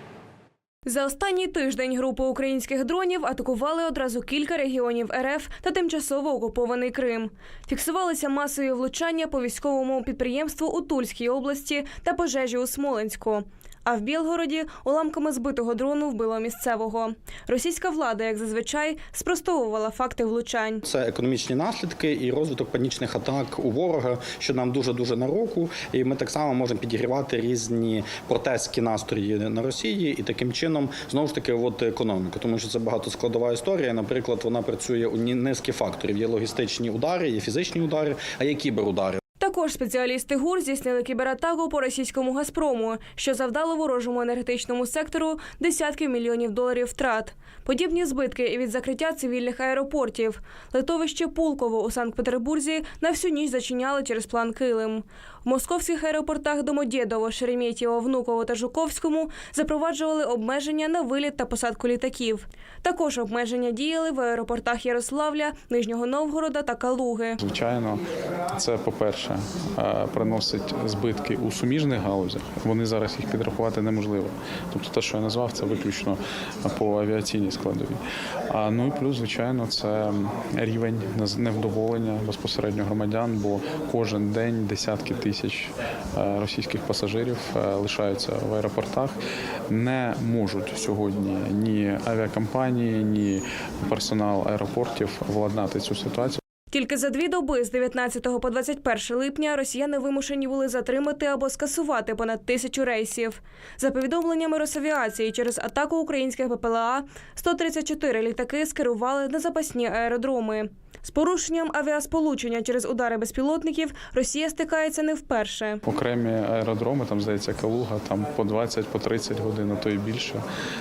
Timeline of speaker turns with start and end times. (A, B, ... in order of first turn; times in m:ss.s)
0:00.9-0:20.8 A
0:20.9-0:39.2 B
0:39.4-1:07.4 A
1:07.4-1:08.0 C
1:08.5-1:29.2 C
1:29.7-1:36.4 C
1:36.7-1:55.8 A
1:55.9-2:00.4 C